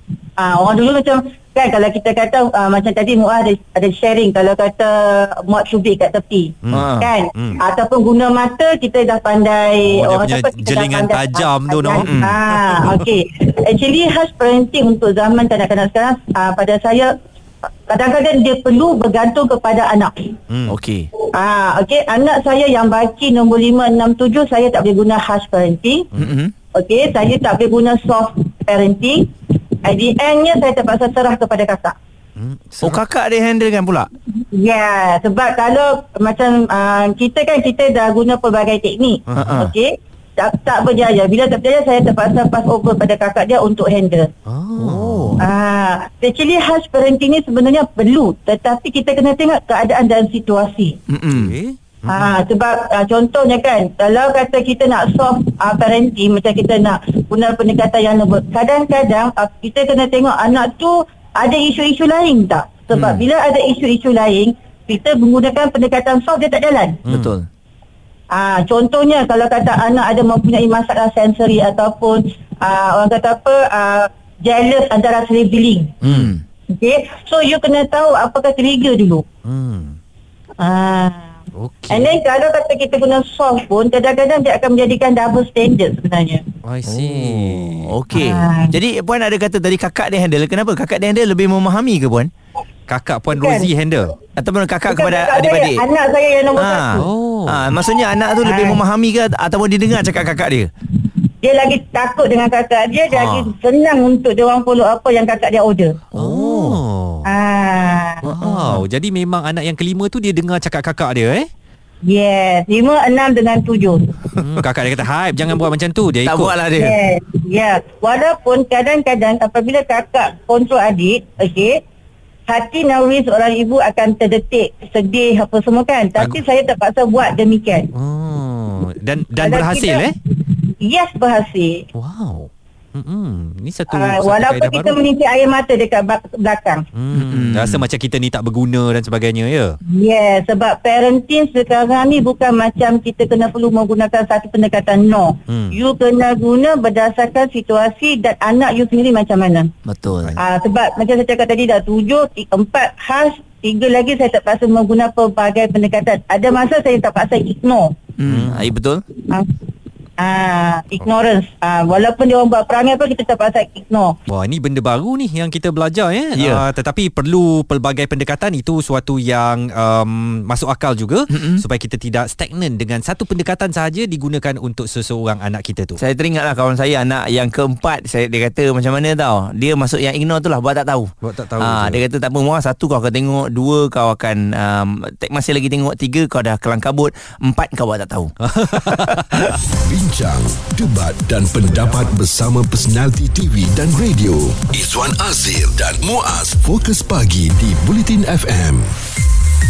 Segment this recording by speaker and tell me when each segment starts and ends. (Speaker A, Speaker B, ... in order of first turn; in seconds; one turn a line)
Speaker A: 0.4-17.1
Speaker B: 6.6-7.6
Speaker C: 6.7-7.1
Speaker B: 9.8-13.0
Speaker C: 11.9-12.4
Speaker A: 17.9-20.4
Speaker B: 20.5-20.7
Speaker C: 20.7-21.1
Speaker A: 21.3-26.1
Speaker C: 26.1-26.5
Speaker A: 26.7-29.3
Speaker A: 29.8-31.9
Speaker B: 32.4-33.0
Speaker C: 32.8-34.1
Speaker A: 34.3-44.3
Speaker B: 39.3-39.6
Speaker C: 39.3-39.7
Speaker B: 44.5-45.4
Speaker C: 44.8-45.4
Speaker A: 45.4-51.0
Speaker C: 51.1-51.5
Speaker B: 51.3-52.3
Speaker A: 52.1-67.0
Speaker C: 62.9-63.2
Speaker B: 67.1-67.3
Speaker C: 67.1-67.5
Speaker A: 68.3-75.9
Speaker B: 76.0-76.3
Speaker C: 76.0-76.4
Speaker A: 76.7-79.2
Speaker B: 79.4-80.0
Speaker A: 80.6-81.3
Speaker B: 81.6-82.1
Speaker A: 81.9-86.4
Speaker B: 86.6-87.9
Speaker C: 86.8-92.3
Speaker A: 88.1-88.7
Speaker B: 92.9-94.1
Speaker A: 93.3-93.7
Speaker C: 94.4-95.8
Speaker A: 94.9-97.1
Speaker C: 96.6-100.7
Speaker B: 97.0-97.7
Speaker A: 98.4-98.8
Speaker A: 101.4-106.0
Speaker C: 103.1-103.5
Speaker C: 106.1-106.8
Speaker B: 106.1-107.2
Speaker A: 107.2-108.2
Speaker C: 108.2-108.8
Speaker B: 108.3-111.5
Speaker A: 112.0-114.2
Speaker B: 114.3-116.5
Speaker C: 116.2-117.0
Speaker A: 116.8-121.8
Speaker A: 122.5-127.9
Speaker B: 127.9-130.1
Speaker A: 129.4-131.8
Speaker B: 131.9-135.0
Speaker A: 133.9-136.8
Speaker B: 136.9-139.8
Speaker C: 137.1-137.8
Speaker A: 139.9-149.7
Speaker B: 145.5-145.8
Speaker C: 149.9-150.3
Speaker A: 150.4-157.9
Speaker C: 158.2-159.0
Speaker B: 158.2-158.7
Speaker A: 159.3-159.6
Speaker A: 160.2-164.2
Speaker B: 164.3-176.0
Speaker C: 166.3-166.6
Speaker C: 171.3-171.6
Speaker C: 176.0-189.6
Speaker B: 181.2-182.0
Speaker B: 188.4-189.5
Speaker D: 189.7-198.9